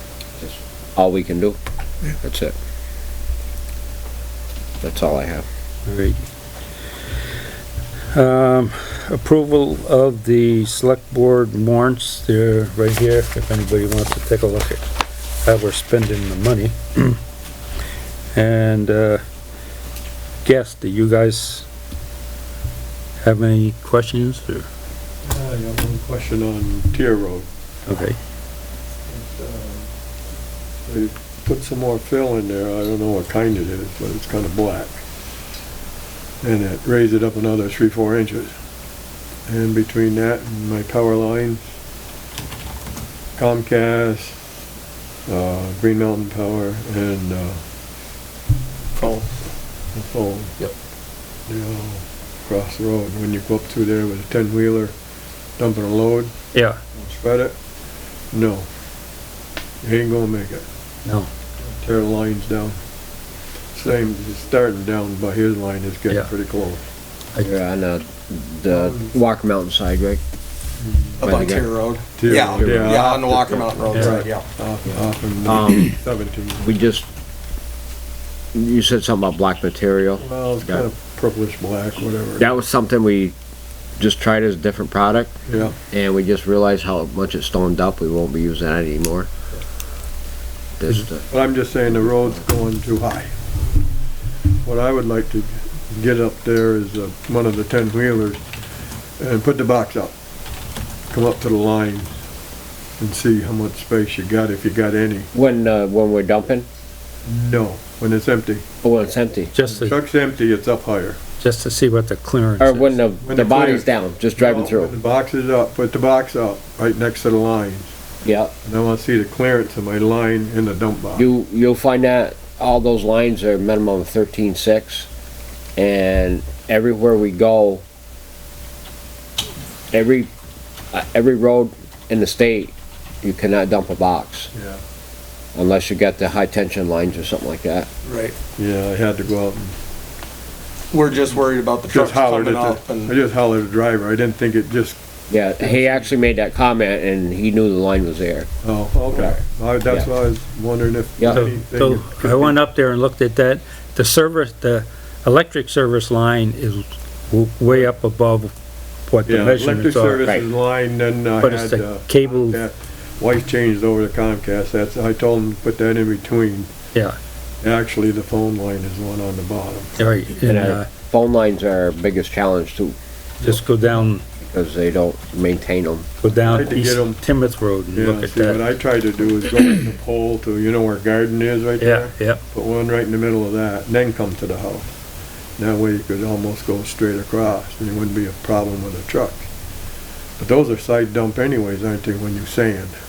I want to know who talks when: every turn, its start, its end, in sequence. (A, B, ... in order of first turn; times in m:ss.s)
0:00.4-0:01.6 A
0:02.2-0:02.6 A
0:04.8-0:05.5 A
0:05.9-0:06.2 B
0:08.1-0:14.9 B
0:15.4-0:17.2 B
0:18.3-0:19.2 B
0:20.4-0:21.7 B
0:23.2-0:24.7 B
0:25.2-0:27.5 C
0:27.9-0:28.2 B
0:29.1-0:29.9 C
0:30.9-0:35.0 C
0:36.4-0:38.5 C
0:39.5-0:41.6 C
0:43.4-0:44.4 C
0:45.3-0:47.6 C
0:49.0-0:49.3 D
0:49.9-0:50.6 C
0:51.5-0:54.9 C
0:55.6-0:56.3 C
0:56.5-0:56.8 B
0:57.0-0:57.6 C
0:58.3-0:58.7 C
0:59.8-1:00.6 C
1:01.8-1:02.8 C
1:03.7-1:06.8 C
1:07.4-1:10.2 A
1:08.7-1:09.1 C
1:10.8-1:11.2 C
1:11.2-1:11.7 A
1:11.2-1:14.5 D
1:12.2-1:16.6 C
1:12.3-1:13.0 A
1:13.9-1:14.2 B
1:15.4-1:16.0 A
1:16.6-1:17.1 A
1:18.6-1:20.9 A
1:20.2-1:22.5 C
1:22.4-1:23.4 A
1:24.0-1:25.3 A
1:25.5-1:25.8 C
1:25.9-1:29.3 A
1:30.8-1:31.3 A
1:31.3-1:33.4 C
1:34.6-1:38.4 C
1:39.2-1:40.1 C
1:41.1-1:42.1 C
1:43.0-1:45.3 C
1:45.3-1:46.7 A
1:47.3-1:48.6 C
1:48.8-1:49.5 A
1:49.6-1:50.0 B
1:49.7-1:51.2 C
1:51.4-1:53.0 B
1:52.6-1:54.9 A
1:53.2-1:57.9 C
1:58.2-1:58.5 A
1:58.6-2:01.3 C
2:01.2-2:05.1 A
2:05.8-2:07.8 A
2:09.9-2:10.3 A
2:10.9-2:14.5 A
2:14.5-2:14.8 C
2:15.6-2:17.9 A
2:18.0-2:18.4 D
2:18.6-2:19.7 C
2:20.9-2:23.1 D
2:21.9-2:25.0 C
2:25.3-2:28.5 A
2:28.6-2:32.6 C
2:29.1-2:30.1 A
2:31.3-2:38.5 B
2:39.1-2:40.3 B
2:39.3-2:46.7 C
2:41.4-2:42.6 B
2:47.6-2:50.0 C
2:50.0-2:50.9 B
2:50.4-2:53.0 A
2:53.4-2:54.2 B
2:54.4-2:56.1 A
2:56.2-2:58.6 B
2:56.4-2:57.2 C
2:57.9-3:05.0 C
3:01.8-3:02.4 B
3:05.6-3:09.5 C
3:10.4-3:13.0 C